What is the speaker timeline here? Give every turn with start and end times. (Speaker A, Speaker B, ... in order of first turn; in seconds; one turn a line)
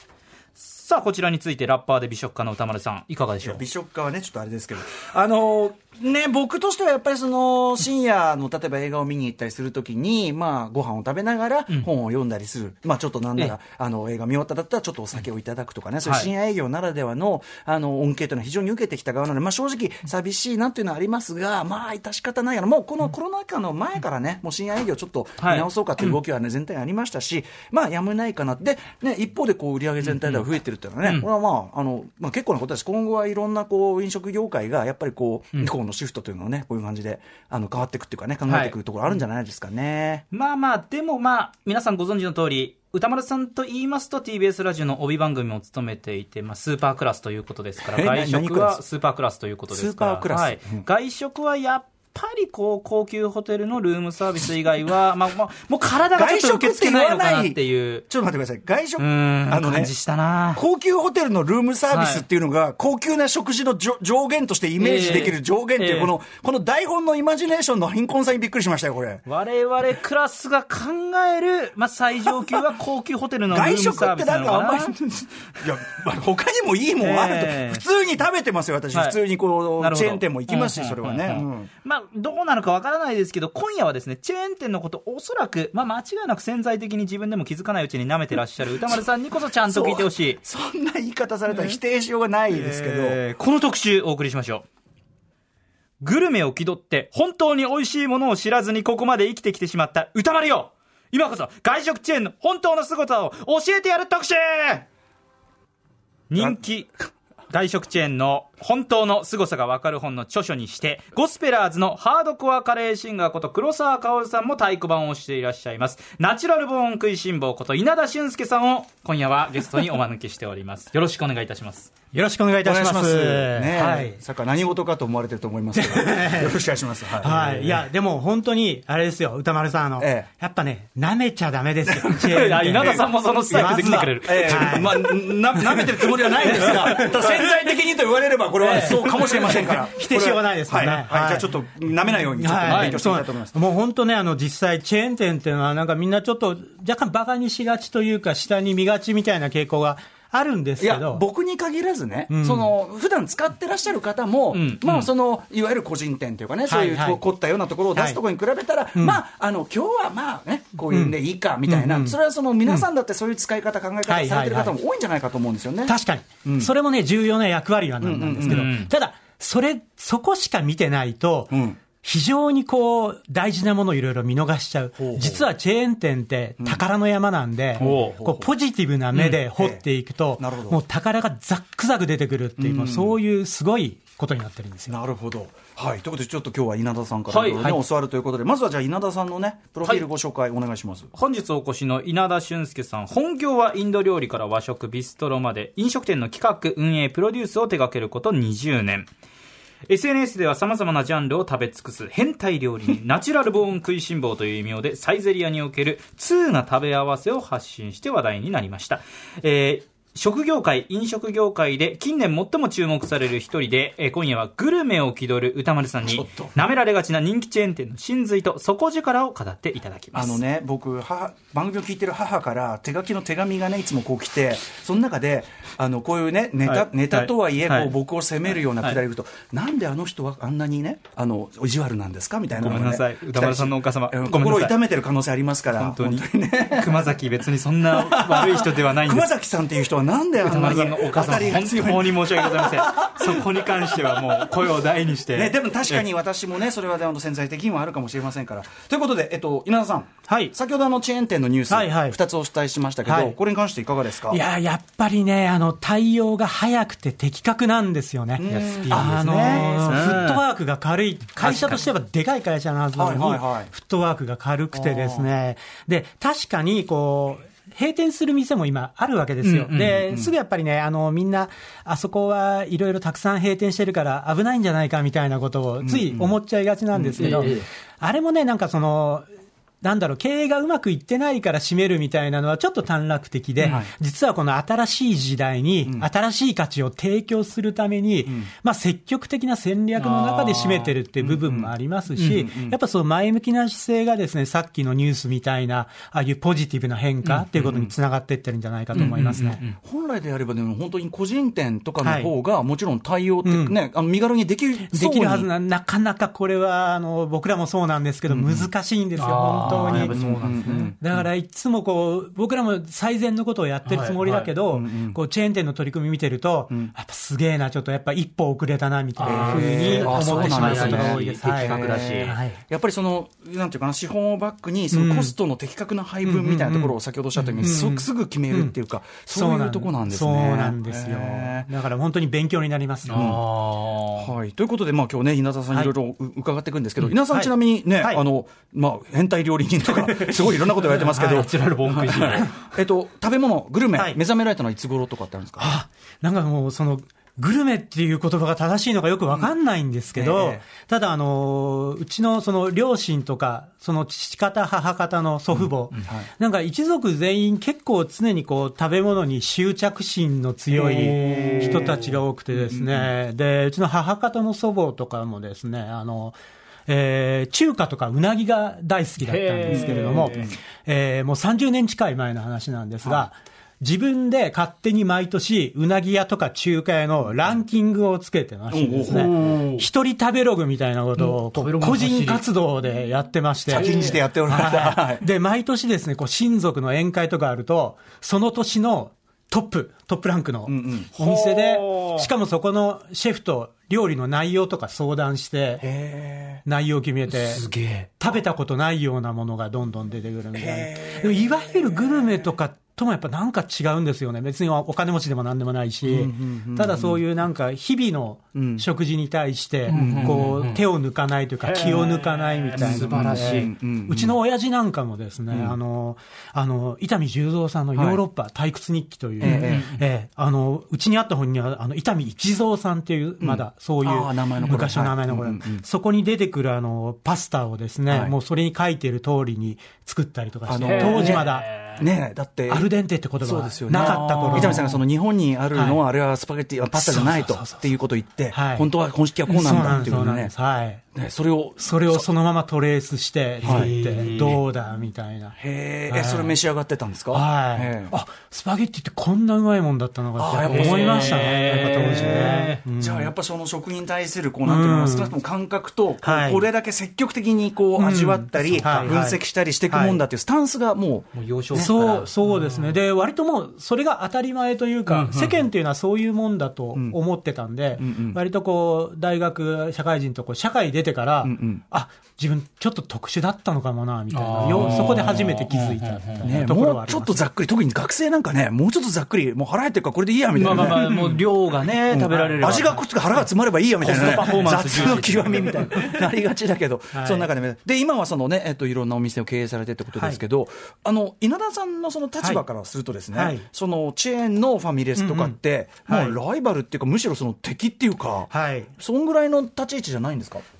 Speaker A: 0.6-3.6
Speaker B: 3.4-40.2
Speaker A: 25.4-26.2
Speaker A: 30.1-30.4
Speaker A: 38.5-38.8
Speaker A: 40.3-58.0
Speaker B: 47.9-48.8
Speaker B: 49.7-50.9
Speaker B: 56.1-59.9
Speaker A: 59.0-60.6
Speaker B: 60.5-69.2
Speaker A: 61.9-62.2
Speaker A: 64.8-66.2
Speaker A: 69.3-74.9
Speaker B: 72.3-72.6
Speaker B: 73.5-81.7
Speaker A: 77.0-77.8
Speaker A: 78.9-79.2
Speaker A: 79.8-90.4
Speaker B: 89.7-93.2
Speaker A: 91.5-91.8
Speaker A: 92.5-94.7
Speaker A: 96.0-104.9
Speaker A: 106.3-106.9
Speaker A: 107.5-121.9
Speaker C: 122.1-124.2
Speaker B: 122.6-127.8
Speaker C: 125.7-126.6
Speaker C: 127.2-137.5
Speaker B: 130.0-130.3
Speaker B: 131.9-143.6
Speaker A: 132.2-135.0
Speaker A: 136.4-137.3
Speaker C: 138.6-141.5
Speaker A: 138.8-139.3
Speaker C: 142.4-151.2
Speaker A: 142.7-143.0
Speaker B: 150.8-166.7
Speaker C: 152.3-152.7
Speaker A: 154.5-155.1
Speaker C: 156.7-157.2
Speaker C: 157.9-158.2
Speaker C: 158.9-159.2
Speaker C: 160.9-162.9
Speaker C: 164.1-164.8
Speaker C: 165.9-184.9
Speaker B: 168.0-168.7
Speaker A: 168.4-168.9
Speaker B: 171.5-171.8
Speaker B: 175.0-175.4
Speaker B: 177.8-178.5
Speaker A: 177.8-178.2
Speaker B: 179.2-179.8
Speaker B: 180.4-180.8
Speaker B: 182.6-183.2
Speaker B: 184.9-191.1
Speaker A: 187.3-187.7
Speaker A: 191.1-199.1
Speaker A: 199.9-220.4
Speaker B: 216.0-216.5
Speaker B: 220.1-237.2
Speaker A: 226.7-227.9
Speaker A: 232.5-234.8
Speaker A: 235.8-239.3
Speaker B: 237.9-244.5
Speaker A: 240.4-246.0
Speaker B: 245.3-254.4
Speaker C: 250.3-250.5
Speaker C: 251.7-252.2
Speaker C: 253.1-253.3
Speaker C: 254.3-279.3
Speaker B: 258.4-260.4
Speaker A: 258.4-260.4
Speaker A: 261.4-261.8
Speaker B: 263.0-263.7
Speaker B: 264.7-265.3
Speaker A: 269.4-270.1
Speaker B: 270.1-270.3
Speaker B: 275.8-276.3
Speaker B: 276.9-277.5
Speaker A: 277.2-277.7
Speaker C: 279.8-299.6
Speaker B: 283.7-283.9
Speaker A: 290.0-290.9
Speaker B: 291.2-292.8
Speaker B: 297.6-297.9
Speaker A: 298.9-299.8
Speaker B: 299.0-305.5
Speaker C: 302.0-302.3
Speaker C: 303.4-303.8
Speaker C: 304.9-322.6
Speaker B: 308.3-308.7
Speaker A: 309.2-310.9
Speaker B: 309.7-311.0
Speaker A: 313.9-314.5
Speaker B: 314.7-315.2
Speaker A: 319.2-322.4
Speaker B: 319.2-331.7
Speaker C: 324.9-325.3
Speaker C: 326.2-327.0
Speaker A: 327.4-327.6
Speaker C: 327.6-328.7
Speaker C: 329.3-333.4
Speaker A: 333.1-334.3
Speaker B: 333.1-333.4
Speaker B: 334.2-345.7
Speaker C: 337.3-338.2
Speaker C: 339.9-340.6
Speaker A: 340.7-342.5
Speaker C: 341.1-341.5
Speaker C: 342.3-342.6
Speaker C: 345.6-395.8
Speaker B: 350.1-350.6
Speaker A: 360.7-362.2
Speaker B: 361.2-361.9
Speaker A: 369.2-370.5
Speaker B: 369.7-370.6
Speaker B: 378.7-379.6
Speaker A: 379.1-379.8
Speaker A: 381.2-382.4
Speaker B: 383.7-385.2
Speaker A: 383.7-384.2
Speaker B: 390.7-391.1
Speaker A: 391.2-392.3
Speaker B: 395.8-396.6
Speaker C: 396.6-397.6
Speaker A: 397.3-398.1
Speaker C: 398.2-431.7
Speaker B: 400.6-402.5
Speaker B: 406.1-407.2
Speaker B: 408.5-408.9
Speaker A: 409.9-410.8
Speaker B: 409.9-410.7
Speaker A: 411.6-413.7
Speaker B: 412.8-414.4
Speaker B: 415.5-415.8
Speaker B: 417.9-418.2
Speaker B: 419.4-419.9
Speaker A: 419.4-420.0
Speaker B: 423.4-425.8
Speaker B: 428.1-428.4
Speaker B: 430.7-432.9
Speaker A: 430.7-432.1
Speaker C: 432.7-434.9
Speaker B: 433.4-440.5
Speaker A: 433.9-435.0
Speaker C: 435.7-436.0
Speaker C: 436.9-437.9
Speaker C: 438.5-438.9
Speaker C: 439.5-441.0
Speaker B: 441.1-442.3
Speaker C: 441.8-445.6
Speaker A: 443.6-444.6
Speaker B: 443.6-444.6
Speaker B: 445.6-448.1
Speaker C: 446.1-446.6
Speaker C: 447.3-453.3
Speaker B: 450.4-462.0
Speaker A: 450.6-452.8
Speaker C: 454.6-455.4
Speaker C: 456.2-456.6
Speaker C: 458.0-460.2
Speaker A: 461.4-463.0
Speaker C: 461.8-477.4
Speaker A: 465.1-465.6
Speaker B: 468.0-468.4
Speaker B: 471.4-471.8
Speaker A: 474.3-476.6
Speaker B: 474.9-475.2
Speaker B: 476.4-500.6
Speaker A: 480.6-483.2
Speaker C: 480.7-481.3
Speaker C: 482.3-483.0
Speaker A: 484.0-486.0
Speaker C: 484.5-485.2
Speaker C: 487.1-487.5
Speaker C: 490.1-490.4
Speaker C: 493.3-493.7
Speaker C: 495.2-496.4
Speaker C: 498.5-498.9